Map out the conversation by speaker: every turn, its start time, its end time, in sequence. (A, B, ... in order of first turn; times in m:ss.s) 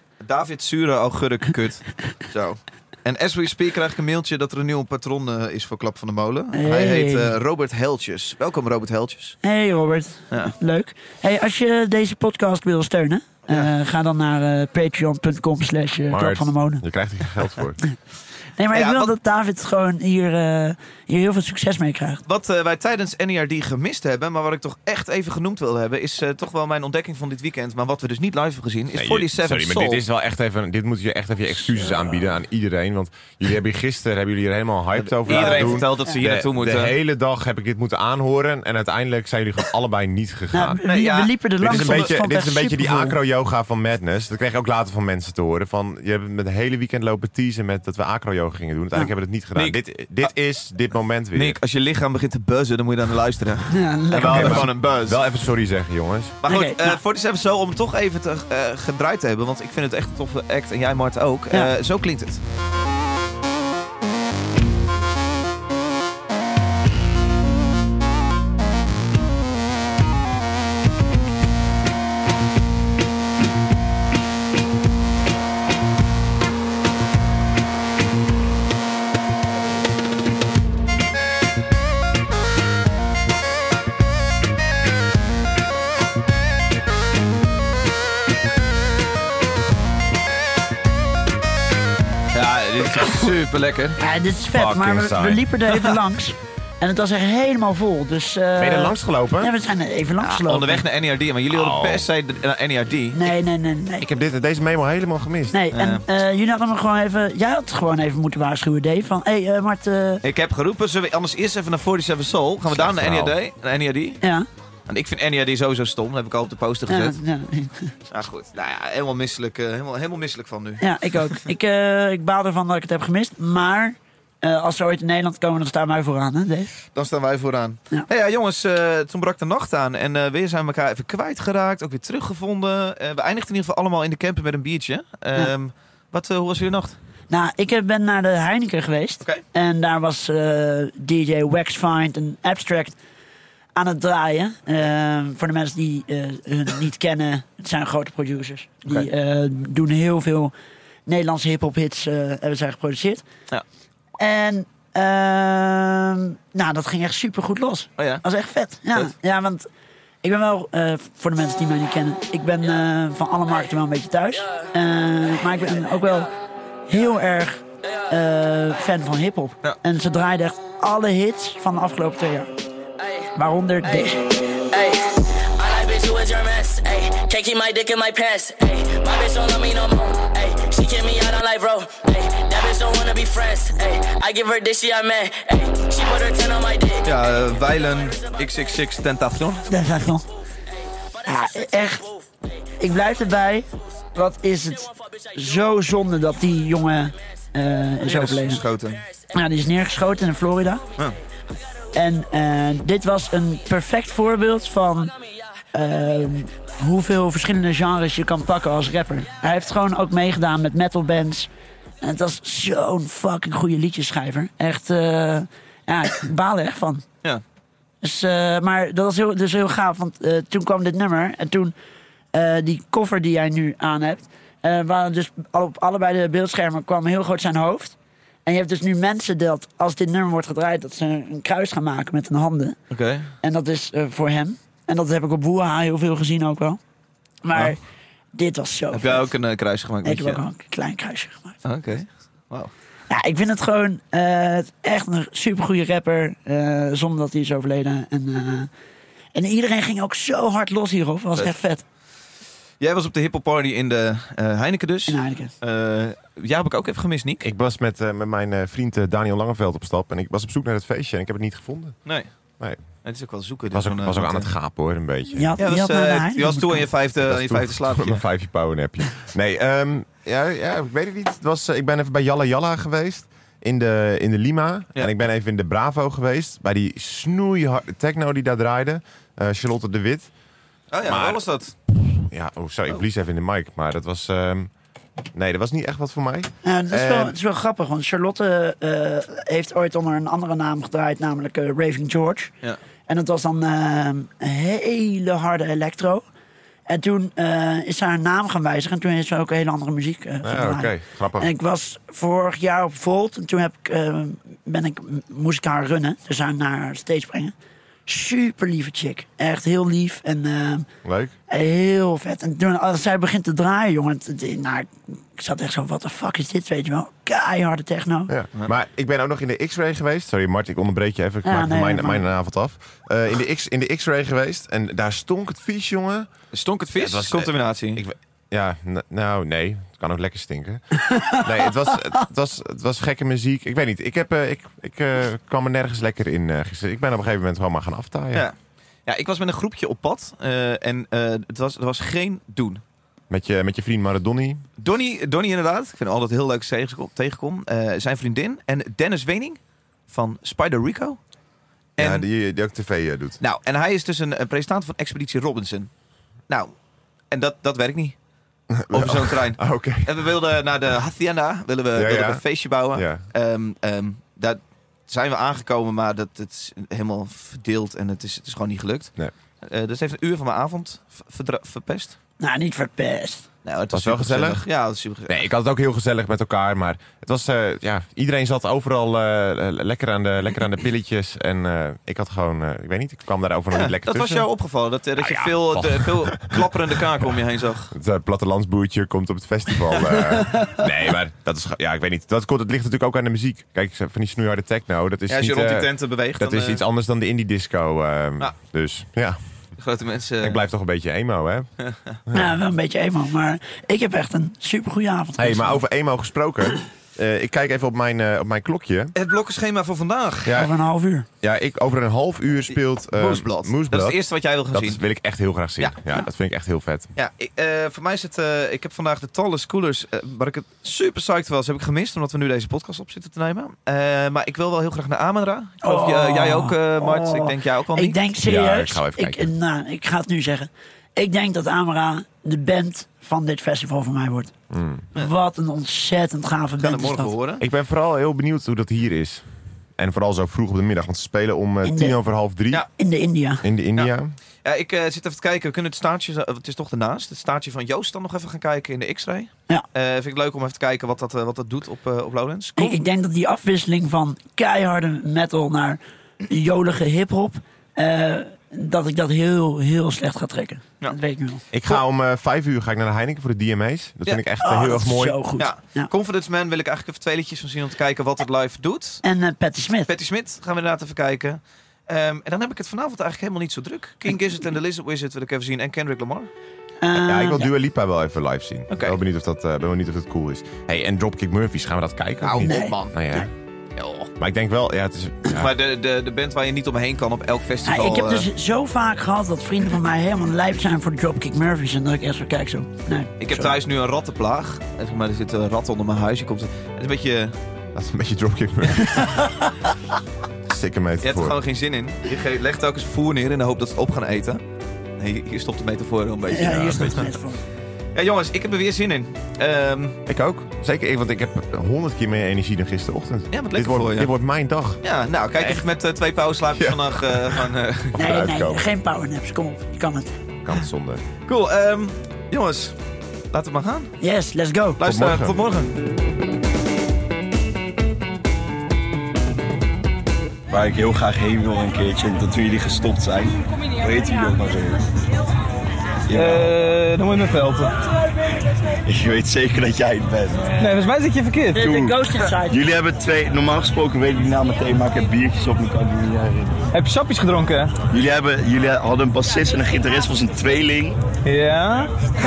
0:00.2-0:09.4 A
0:06.5-0:07.3 B
0:09.4-0:16.8 B
0:16.1-0:17.8 C
0:18.6-0:22.2 B
0:18.7-0:19.1 A
0:22.3-0:30.0 A
0:29.0-0:40.8 C
0:35.0-0:36.9 A
0:35.3-0:36.2 B
0:40.5-0:43.2 B
0:40.8-0:42.1 A
0:41.6-0:51.6 C
0:49.6-0:50.3 A
0:51.3-0:55.2 A
0:53.7-0:54.7 B
0:54.2-0:56.4 C
0:56.4-1:02.4 A
0:56.5-0:57.0 B
1:32.3-1:34.0 A
1:34.0-1:40.8 B
1:34.5-1:35.4 C
1:38.6-1:39.5 C
1:40.2-1:43.3 A
1:41.5-1:42.1 C
1:43.1-1:44.1 B
1:44.0-1:45.6 C
1:45.5-1:50.2 B
1:45.7-1:46.0 A
1:50.2-1:54.2 A
1:52.7-1:53.4 C
1:54.9-1:57.2 A
1:56.9-1:57.9 B
1:58.1-2:01.4 A
2:00.8-2:06.7 B
2:07.0-2:17.0 A
2:17.3-2:23.0 B
2:23.8-2:30.5 B
2:31.1-2:33.2 B
2:34.2-2:39.7 B
2:38.0-2:38.2 A
2:40.2-2:46.3 B
2:46.9-2:52.5 B
2:53.4-2:54.2 B
2:53.9-3:07.0 D
3:07.0-3:09.6 A
3:09.7-3:10.3 B
3:11.2-3:12.1 B
3:11.3-3:12.0 D
3:12.8-3:18.6 B
3:18.0-3:19.0 A
3:19.3-3:20.8 B
3:21.9-3:25.1 B
3:25.7-3:31.5 B
3:32.0-3:37.0 B
3:38.0-3:41.7 B
3:42.3-3:47.9 B
3:48.5-3:52.8 B
3:52.9-3:53.3 A
3:53.4-3:56.8 B
3:57.4-3:57.8 B
3:58.3-3:59.3 B
3:58.9-4:00.4 A
4:00.0-4:01.6 B
4:01.6-4:02.7 A
4:03.1-4:08.7 B
4:09.4-4:11.8 B
4:12.8-4:17.4 A
4:15.1-4:15.5 B
4:17.4-4:22.0 C
4:23.0-4:24.5 A
4:23.7-4:25.6 C
4:25.3-4:26.9 B
4:25.6-4:28.2 A
4:27.3-4:40.3 C
4:40.9-4:41.7 A
4:41.0-4:41.4 C
4:42.2-4:44.7 C
4:45.3-4:47.4 C
4:46.6-4:52.5 B
4:53.1-4:56.2 B
4:56.9-5:07.5 B
5:00.4-5:01.5 C
5:08.1-5:10.9 B
5:11.0-5:11.3 C
5:11.5-5:18.3 B
5:18.3-5:26.3 C
5:21.4-5:22.2 B
5:26.5-5:28.0 A
5:27.0-5:38.5 C
5:31.0-5:31.4 B
5:39.1-5:42.8 A
5:43.3-5:44.6 C
5:44.8-5:51.2 A
5:52.0-5:52.2 A
5:52.0-5:53.4 C
5:53.4-5:55.9 A
5:57.3-5:58.2 A
5:58.7-6:00.3 C
5:58.9-6:12.2 A
6:02.0-6:03.2 C
6:12.4-6:13.4 B
6:13.6-6:15.4 A
6:13.9-6:14.6 C
6:15.3-6:24.5 C
6:23.7-6:27.9 A
6:25.2-6:27.4 C
6:27.9-6:39.4 C
6:35.3-6:36.8 A
6:39.8-6:40.6 A
6:40.4-6:41.7 C
6:41.8-6:42.2 A
6:42.3-6:42.5 C
6:42.3-6:45.8 B
6:45.4-6:49.1 C
6:49.2-6:50.6 A
6:50.5-6:50.7 C
6:50.5-6:51.3 B
6:51.4-6:54.2 C
6:52.7-6:55.0 A
6:54.7-6:57.1 C
6:55.8-6:56.2 A
6:57.2-7:08.2 A
7:05.8-7:14.5 B
7:08.4-7:09.5 C
7:14.7-7:15.1 C
7:15.1-7:17.3 B
7:16.8-7:17.6 A
7:17.6-7:22.9 C
7:21.8-7:22.2 B
7:23.0-7:23.6 B
7:23.6-7:24.4 C
7:24.6-7:33.0 A
7:32.8-7:41.6 B
7:41.7-7:45.4 C
7:44.6-7:46.1 B
7:45.6-7:49.2 A
7:49.2-7:50.1 B
7:50.1-7:56.5 A
7:57.0-7:57.7 B
7:57.1-8:03.5 C
7:58.9-7:59.2 A
8:02.4-8:03.3 A
8:02.6-8:03.0 B
8:04.0-8:04.3 A
8:04.4-8:05.7 C
8:05.5-8:08.5 A
8:07.8-8:13.7 B
8:13.4-8:17.6 A
8:17.9-8:19.5 C
8:20.7-8:21.6 C
8:21.2-8:24.6 A
8:25.2-8:27.3 A
8:26.5-8:27.6 B
8:28.2-8:30.2 A
8:30.3-8:35.0 C
8:33.5-8:34.3 A
8:35.0-8:38.2 A
8:35.6-8:35.8 C
8:36.8-8:38.9 C
8:38.2-8:40.3 B
8:40.6-8:41.2 C
8:41.5-8:43.0 A
8:43.5-8:44.1 A
8:44.2-8:45.0 B
8:45.0-8:46.0 A
8:45.0-8:45.6 C
8:50.7-8:55.0 E
8:56.3-8:56.7 E
8:56.3-8:58.1 F
8:59.1-9:00.7 E
9:00.8-9:01.8 F
9:01.7-9:02.8 B
9:01.8-9:02.2 E
9:02.7-9:06.8 E
9:06.9-9:07.9 F
9:08.0-9:11.2 E
9:11.4-9:12.1 F